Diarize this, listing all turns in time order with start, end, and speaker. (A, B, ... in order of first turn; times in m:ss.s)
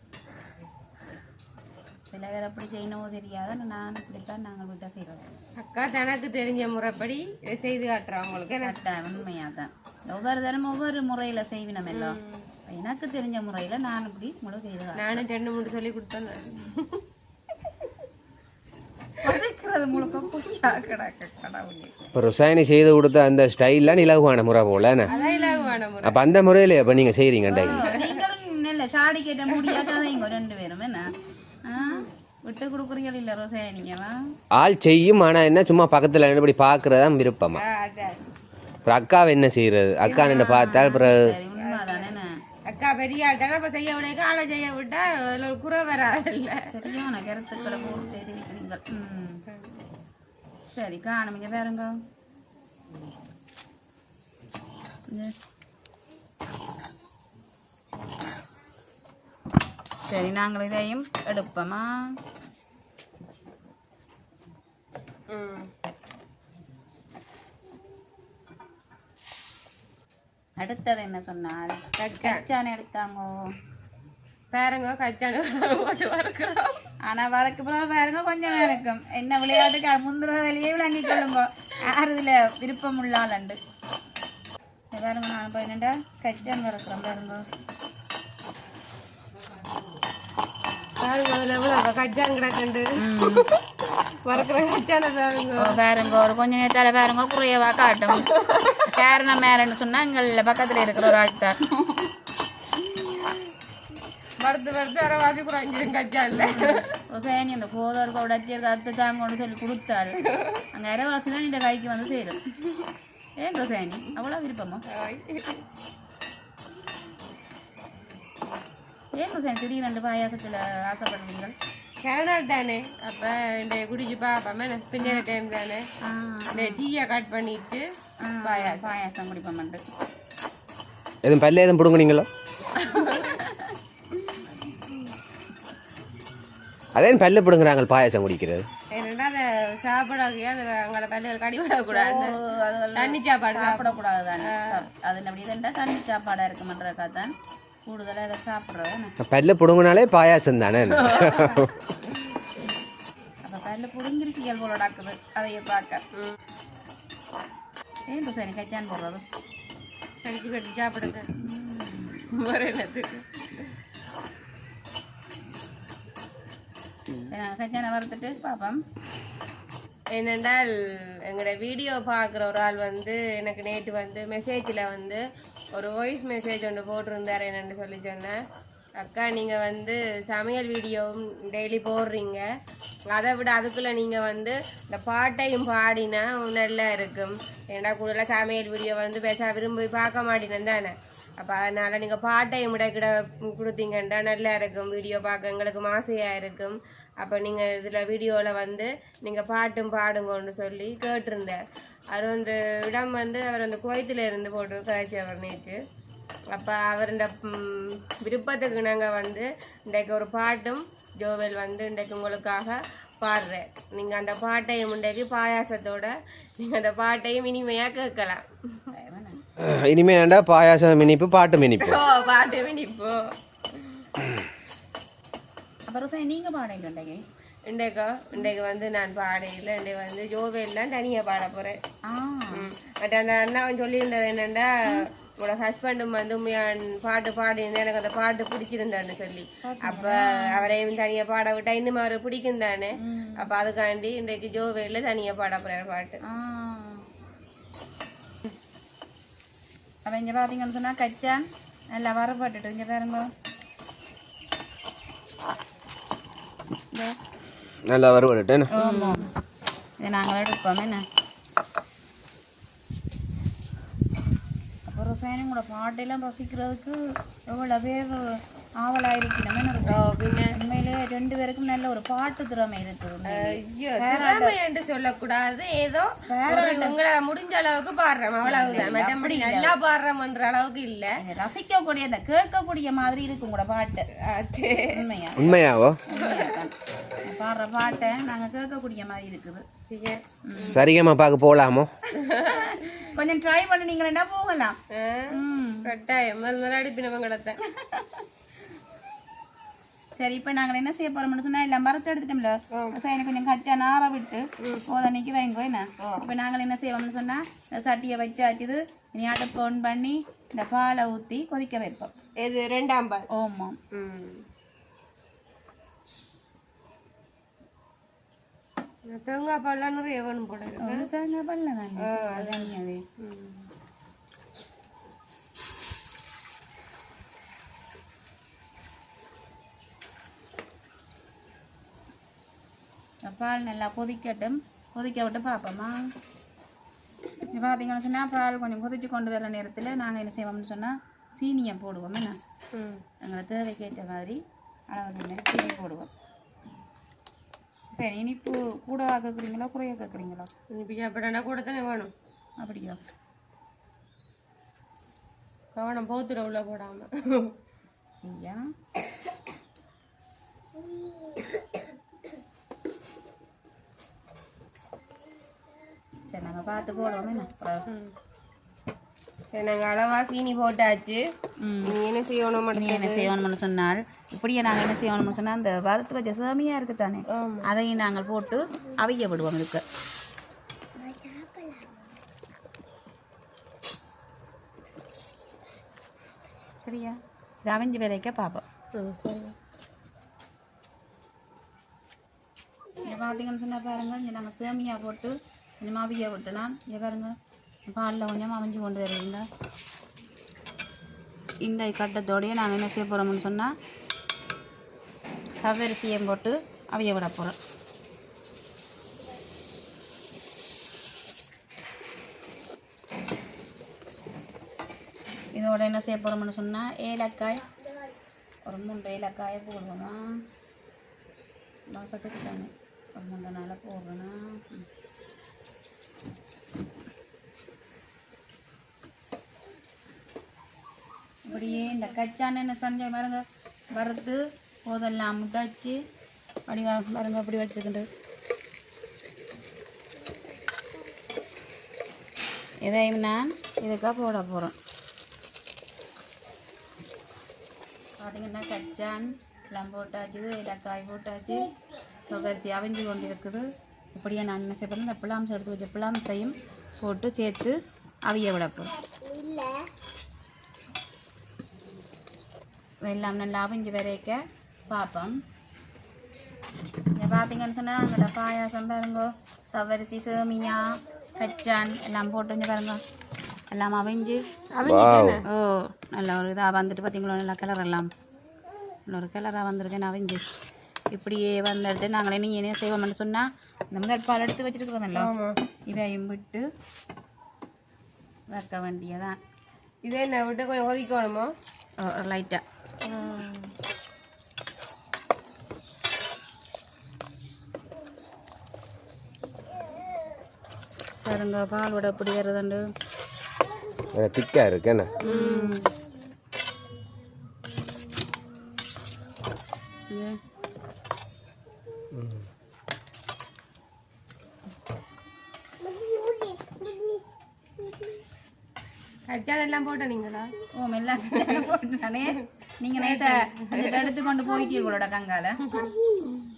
0:02.1-0:05.2 A
0:05.6-0:08.8 B
0:08.6-0:15.2 A
0:11.9-0:12.5 B
0:15.0-0:17.0 B
0:19.2-0:21.9 A
0:20.6-0:21.0 B
0:22.1-0:25.1 C
0:25.1-0:26.2 B
0:25.1-0:25.8 A
0:26.0-0:27.9 C
0:27.5-0:31.1 A
0:27.6-0:28.2 B
0:29.6-0:30.0 B
0:31.6-0:34.1 A
0:31.8-0:32.0 B
0:34.5-0:37.6 C
0:37.5-0:38.2 B
0:38.8-0:41.4 C
0:40.1-0:42.3 A
0:41.5-0:46.7 B
0:46.7-0:49.4 A
0:47.6-0:48.2 B
0:49.5-0:49.8 B
0:50.7-0:52.0 A
1:00.1-1:01.9 A
1:05.3-1:05.7 B
1:10.6-1:13.3 A
1:12.0-1:12.4 B
1:14.5-1:16.8 B
1:17.0-1:23.6 A
1:24.9-1:27.4 A
1:31.0-1:33.5 B
1:33.0-1:33.5 A
1:34.2-1:35.8 B
1:35.6-1:38.2 A
1:38.1-1:39.0 B
1:38.8-1:41.6 A
1:44.4-1:46.9 B
1:46.4-1:50.2 A
1:50.2-1:50.6 B
1:50.7-1:52.4 A
1:53.4-1:54.8 A
1:54.9-1:55.6 B
1:59.2-2:01.5 A
2:02.0-2:05.8 B
2:05.0-2:05.2 A
2:06.0-2:06.8 A
2:06.5-2:07.8 B
2:08.2-2:09.8 A
2:08.4-2:08.9 B
2:11.2-2:12.3 C
2:12.8-2:13.4 B
2:13.1-2:13.7 A
2:16.9-2:18.6 C
2:18.9-2:22.4 B
2:21.9-2:27.3 A
2:22.9-2:24.8 B
2:27.8-2:29.2 A
2:29.2-2:31.8 C
2:31.0-2:31.6 B
2:33.4-2:36.0 A
2:38.1-2:39.2 A
2:40.2-2:41.3 B
2:41.4-2:42.2 A
2:42.3-2:43.7 B
2:47.3-2:48.8 A
2:50.1-2:50.7 B
2:51.2-2:55.2 B
2:55.7-2:58.4 B
2:59.0-3:02.4 B
3:03.1-3:21.6 B
3:22.1-3:25.8 B
3:26.5-3:38.9 B
3:38.9-3:39.4 A
3:39.6-3:42.0 C
3:41.8-3:43.3 B
3:45.9-3:47.2 A
3:47.7-3:51.8 B
3:52.1-3:52.6 A
3:52.5-4:06.2 B
3:59.6-4:00.7 A
4:03.0-4:03.5 A
4:06.3-4:07.0 A
4:10.0-4:13.3 A
4:17.8-4:18.7 C
4:18.7-4:19.2 A
4:18.8-4:19.2 B
4:20.0-4:21.0 A
4:24.9-4:27.0 A
4:27.5-4:34.6 A
4:29.9-4:30.5 B
4:33.3-4:41.1 B
4:36.3-4:37.0 A
4:38.4-4:39.7 A
4:41.2-4:44.1 A
4:44.2-4:45.0 B
4:44.9-4:49.6 A
4:45.4-4:46.0 C
4:46.1-4:46.5 B
4:49.9-4:50.8 B
4:50.4-4:50.8 A
4:50.6-4:51.9 C
4:52.2-4:52.8 B
4:52.4-4:54.8 A
4:54.9-4:57.6 B
4:55.3-4:55.9 A
4:57.8-4:58.2 A
5:00.2-5:12.1 A
5:02.7-5:03.0 B
5:04.6-5:04.8 B
5:06.0-5:06.2 B
5:12.4-5:13.3 B
5:13.3-5:13.8 A
5:13.9-5:14.4 B
5:19.1-5:21.1 B
5:20.8-5:23.0 A
5:22.0-5:23.7 B
5:33.2-5:35.9 A
5:37.5-5:42.4 A
5:42.7-5:43.0 B
5:43.2-5:44.4 A
5:44.9-5:46.1 A
5:48.0-5:50.5 A
5:50.7-5:52.1 B
5:52.6-5:53.0 A
5:55.8-5:57.5 B
5:58.2-5:58.6 A
6:06.3-6:07.8 A
6:07.9-6:08.1 B
6:09.5-6:11.2 B
6:11.6-6:12.0 A
6:11.8-6:13.3 B
6:12.7-6:19.8 A
6:17.3-6:17.7 B
6:21.3-6:21.7 B
6:26.8-6:28.6 A
6:28.9-6:29.5 B
6:33.0-6:37.3 A
6:37.9-6:39.4 A
6:41.6-6:43.7 A
6:45.6-6:47.6 A
6:55.5-6:57.6 A
6:58.6-7:00.2 A
7:01.9-7:04.8 A
7:11.4-7:13.4 A
7:13.9-7:16.0 A
7:16.7-7:18.0 A
7:22.8-7:24.7 A
7:28.2-7:31.7 A
7:32.2-7:33.6 A
7:34.1-7:37.7 A
7:38.2-7:38.9 A
7:43.0-7:45.3 A
7:47.2-7:53.0 A
7:53.7-7:54.4 A
7:54.7-7:55.4 B
7:54.8-7:55.4 C
7:55.5-7:58.1 A
7:59.1-8:00.5 A
8:01.1-8:05.3 A
8:05.1-8:05.5 B
8:05.9-8:06.6 A
8:08.5-8:09.4 A
8:10.0-8:11.5 B
8:12.0-8:12.6 A
8:13.0-8:13.7 B
8:21.2-8:22.8 A
8:24.1-8:25.2 C
8:25.2-8:25.9 A
8:25.2-8:25.9 B
8:30.1-8:30.4 A
8:39.3-8:40.5 B
8:40.8-8:45.8 A
8:41.3-8:41.6 B
8:43.0-8:44.1 B